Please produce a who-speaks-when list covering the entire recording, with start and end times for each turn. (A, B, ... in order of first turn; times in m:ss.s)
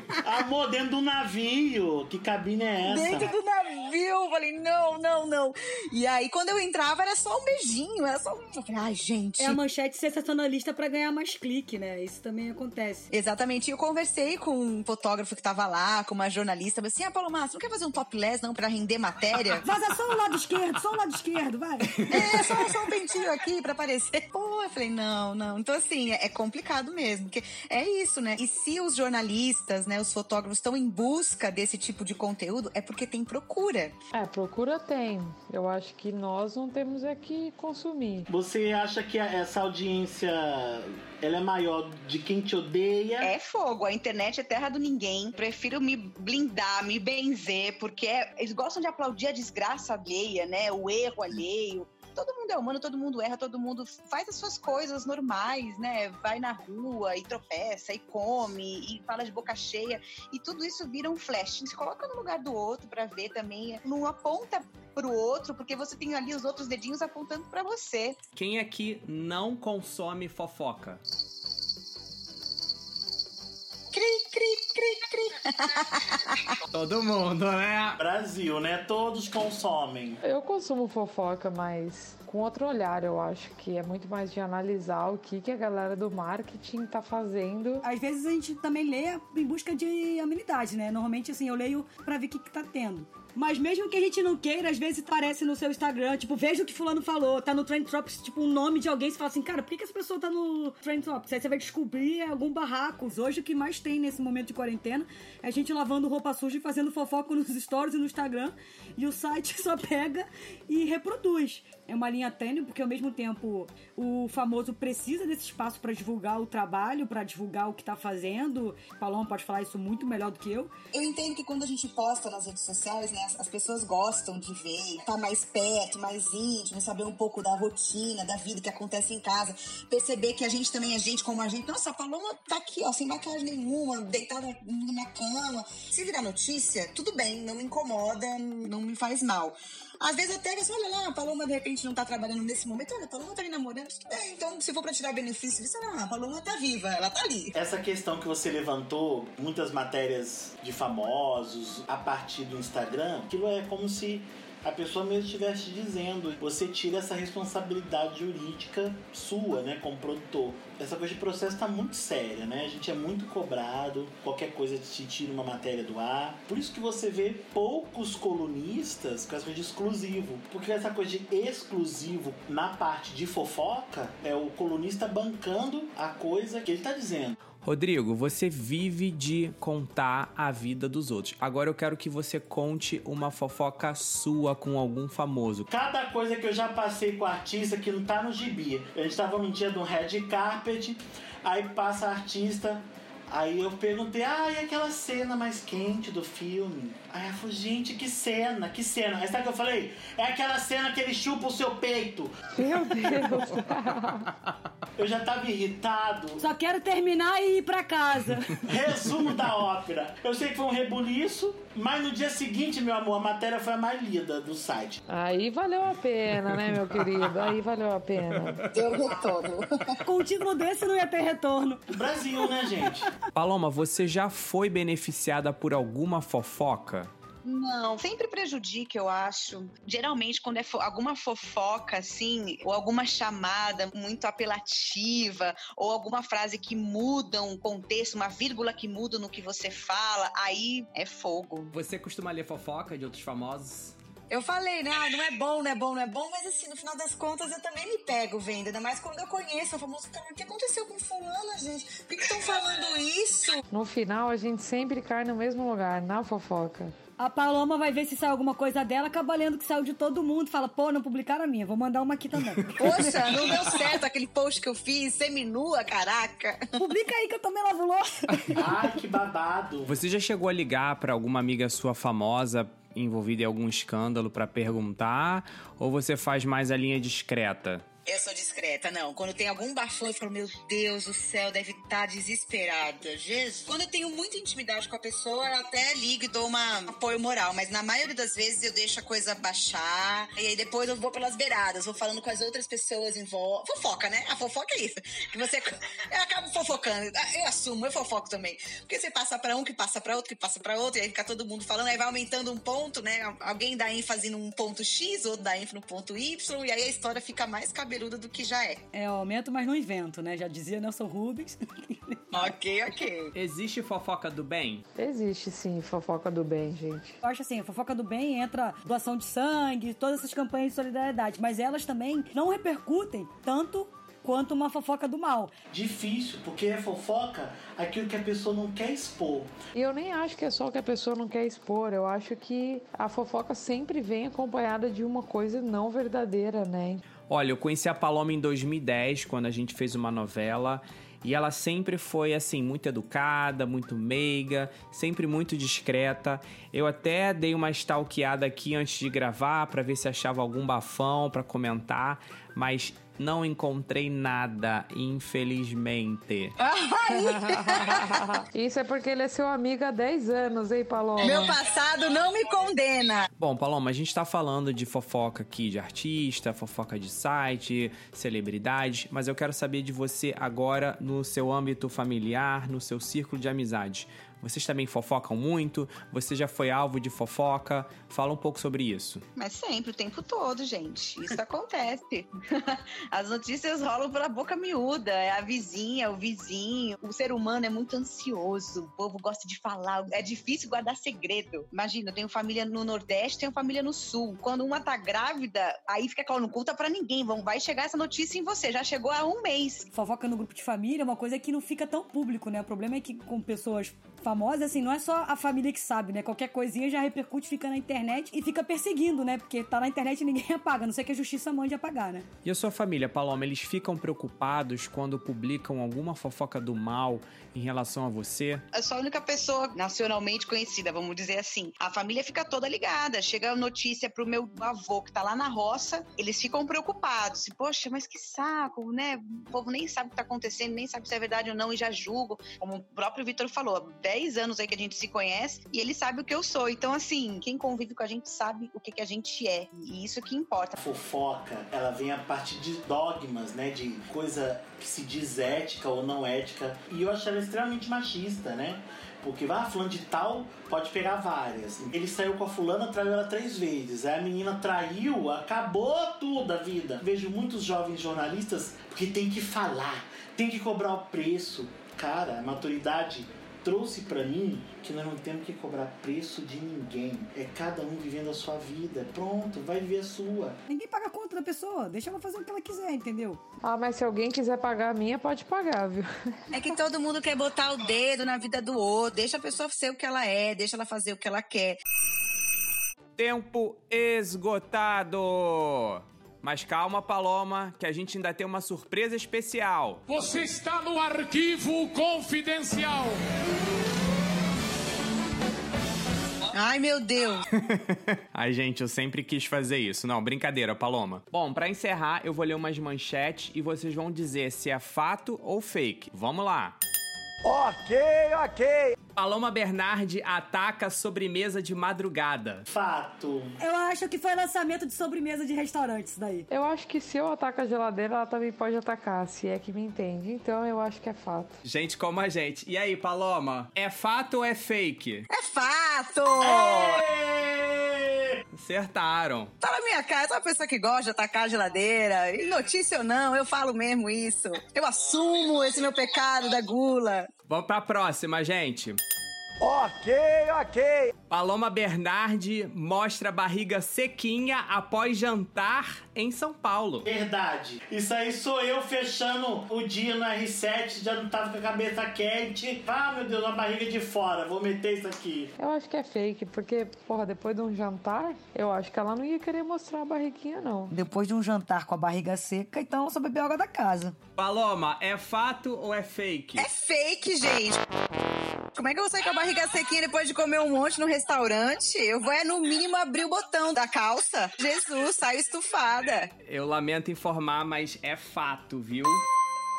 0:00.2-0:03.3 A
0:02.8-0:09.6 B
0:09.4-0:13.1 C
0:13.1-0:19.6 B
0:19.6-0:22.7 C
0:22.1-0:34.0 B
0:34.1-0:38.3 D
0:38.3-0:43.3 A
0:43.2-1:08.2 B
1:08.4-1:11.0 E
1:13.9-1:16.4 B
1:16.7-1:18.0 E
1:18.0-1:20.2 A
1:20.2-1:27.8 D
1:27.8-2:00.7 C
2:00.9-2:27.6 B
2:27.5-2:57.4 A
2:57.6-3:05.7 E
3:05.7-3:23.1 A
3:22.5-3:24.3 D
3:25.0-3:26.4 A
3:26.4-3:28.6 C
3:28.6-3:35.0 A
3:35.1-3:38.6 D
3:36.9-3:37.5 E
3:38.3-3:38.8 E
3:38.7-3:40.0 B
3:40.0-3:41.9 C
3:41.9-3:43.1 A
3:43.4-3:47.1 E
3:47.4-4:01.7 B
4:01.7-4:04.0 E
4:04.3-4:13.6 B
4:13.7-4:16.9 D
4:17.2-4:24.0 C
4:22.8-4:26.9 B
4:26.8-4:28.7 C
4:28.6-4:30.0 A
4:29.9-4:37.9 E
4:38.1-5:08.8 B
5:08.9-5:12.5 C
5:12.3-5:13.3 B
5:13.3-5:14.8 E
5:15.0-5:17.2 D
5:17.2-5:25.5 C
5:25.7-5:29.5 A
5:29.7-5:37.0 D
5:37.3-5:56.6 E
5:56.6-5:58.3 B
5:58.5-6:01.6 D
6:01.2-6:03.3 B
6:03.4-6:19.2 E
6:19.4-6:39.9 B
6:39.9-6:52.3 C
6:52.4-6:58.6 E
6:58.8-7:20.8 B
7:20.8-7:50.6 A
7:50.7-7:53.4 C
7:53.6-7:56.1 D
7:56.5-8:01.8 B
8:03.2-8:10.0 E
8:10.1-8:13.2 F
8:16.5-8:17.4 B
8:17.7-8:26.8 E
8:27.4-8:28.9 G
8:29.2-8:32.7 E
8:32.7-8:33.6 A
8:33.6-8:36.5 C
8:36.5-8:41.6 D
8:41.6-8:45.3 E
8:45.3-8:47.0 B
8:46.4-8:48.4 A
8:48.6-8:49.5 E
8:49.6-8:57.3 B
8:57.5-8:59.0 E
8:59.6-9:01.1 G
9:01.3-9:07.1 E
9:07.0-9:15.5 A
9:15.6-9:21.0 D
9:20.9-9:24.2 C
9:24.4-9:26.7 E
9:26.6-9:27.8 B
9:28.8-9:36.3 B
9:36.5-9:39.2 E